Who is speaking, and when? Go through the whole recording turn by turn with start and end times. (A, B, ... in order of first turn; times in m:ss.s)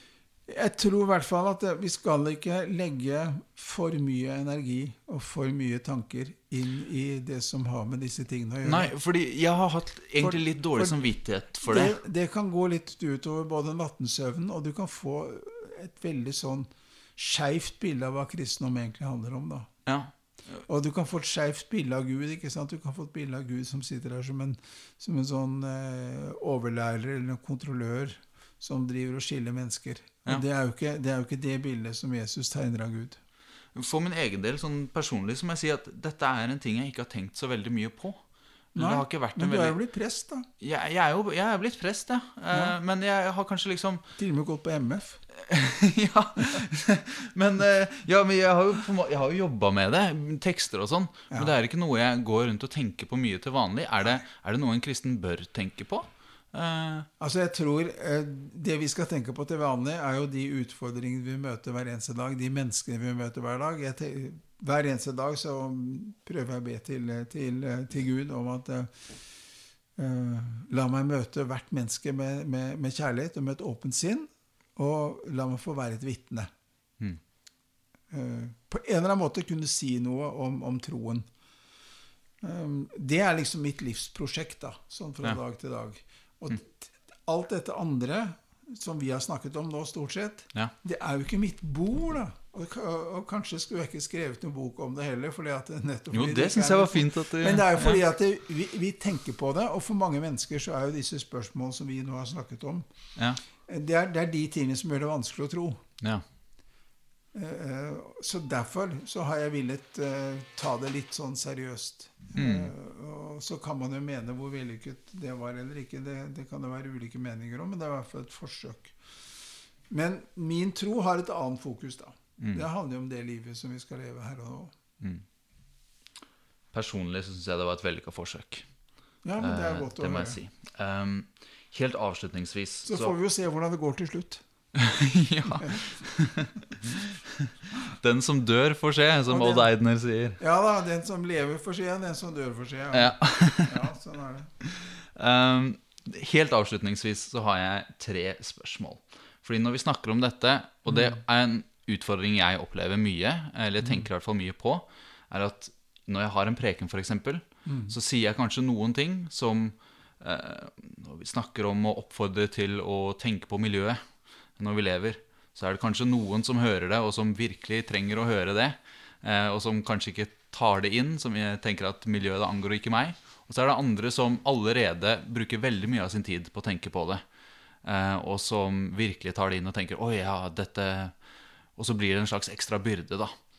0:00.5-0:08.9 A
0:08.6-0:12.0 B
0:10.2-0:11.1 A
0:11.6-0:19.7 A
0:19.8-0:20.6 B
0:20.7-0:33.2 A
0:33.7-0:38.2 B
0:38.7-0:39.8 B
0:38.7-0:40.5 A
0:40.6-0:44.0 B
0:44.2-0:45.2 A
0:45.3-0:57.1 B
0:57.2-1:09.1 A
1:10.0-1:16.5 A
1:18.1-1:21.3 A
1:22.4-1:42.9 A
1:36.1-1:38.0 B
1:43.7-1:45.8 A
1:47.3-1:58.9 A
1:52.4-1:52.7 B
1:59.9-2:04.8 A
2:02.4-2:02.6 B
2:06.7-2:08.7 B
2:09.2-2:10.4 A
2:09.4-2:13.1 B
2:12.8-2:14.4 A
2:14.7-2:20.4 B
2:19.3-2:19.7 A
2:20.4-2:24.5 A
2:22.9-2:23.8 B
2:24.6-2:44.0 B
2:37.6-2:37.9 A
2:44.6-2:57.2 B
2:57.8-3:01.2 B
3:01.8-3:03.3 B